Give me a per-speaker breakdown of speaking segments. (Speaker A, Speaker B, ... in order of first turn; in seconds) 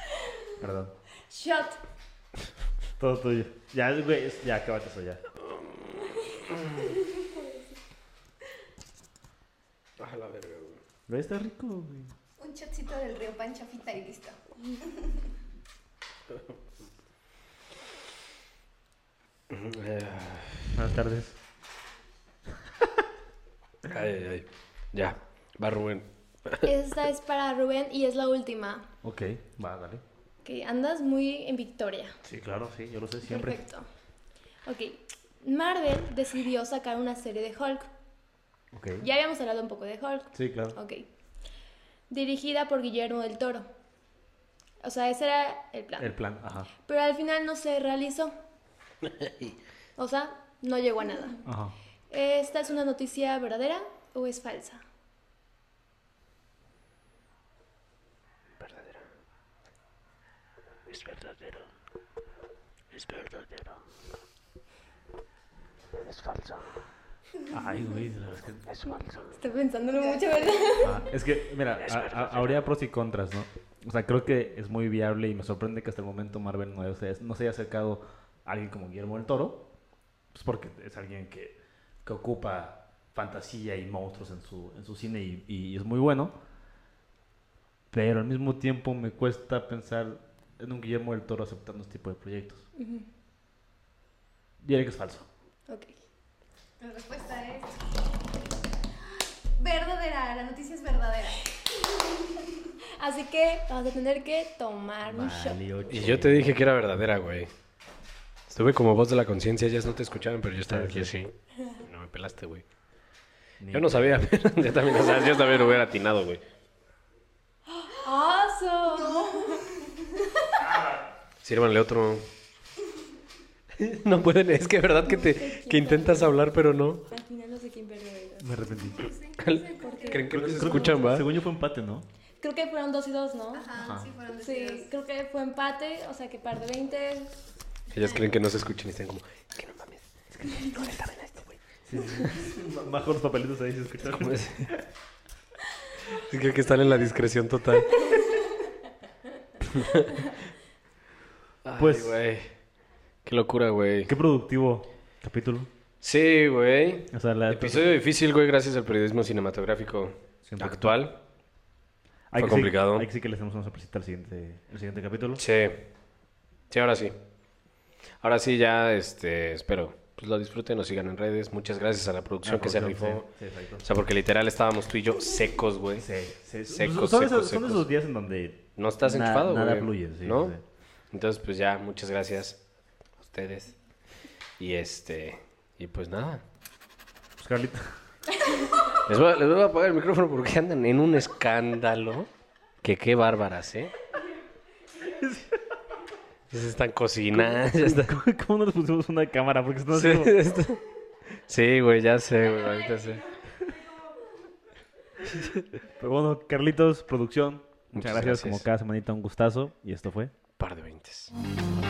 Speaker A: 0.6-0.9, 3.0-5.2, 11.1-12.1, 20.7-21.4, 29.0-30.0, 32.2-33.6, 38.7-39.0, 40.3-40.8, 46.0-46.7, 51.4-51.7, 67.5-69.0, 70.8-79.6, 80.3-86.3, 87.9-92.6, 94.6-95.3, 105.0-106.5, 110.6-111.2, 113.6-114.2, 120.6-121.0, 128.4-129.1, 130.3-132.1, 133.8-134.1, 140.3-140.9, 141.8-144.8, 151.8-152.2, 154.1-155.7, 157.1-157.9, 160.4-161.0, 162.3-165.4, 172.4-173.9, 176.0-180.6, 187.4-187.8, 195.0-195.6, 197.3-200.3, 206.0-210.3
Speaker B: 1.3-1.8, 7.2-7.6, 26.6-28.9, 30.4-32.2, 33.2-33.9, 34.6-37.9, 39.0-41.0, 42.1-43.7, 44.8-46.1, 46.8-48.3, 50.0-51.4, 52.1-54.8, 69.4-71.0, 92.8-93.1, 95.7-96.0, 103.0-105.6, 117.8-119.6, 125.0-126.5, 127.0-128.8, 129.8-131.1, 132.4-133.7, 134.4-137.3
Speaker C: 10.0-10.8, 19.5-20.7, 23.9-26.7, 49.2-49.5, 58.6-59.0, 60.9-61.4, 62.9-63.6, 66.1-66.6, 71.8-72.5, 105.9-107.5, 108.5-112.6, 113.7-116.4, 121.4-122.3, 123.8-127.0, 129.4-131.3, 137.9-140.0, 140.6-141.6, 144.1-144.7, 146.1-148.0, 149.7-150.1, 151.6-152.4, 153.2-154.1, 156.0-161.2, 162.3-163.1, 165.4-165.8, 166.7-167.1, 168.2-173.3, 173.8-176.1, 176.7-177.9, 178.8-180.6, 181.1-182.6, 183.2-183.7, 184.6-186.4, 189.1-192.3, 192.8-193.9, 196.5-198.2, 199.9-200.8, 201.5-203.3, 207.9-208.7, 210.6-211.3
Speaker D: 12.4-15.2, 69.9-71.0, 96.8-97.8, 99.5-101.5, 118.9-120.3, 128.8-130.4, 133.5-134.9, 138.0-138.3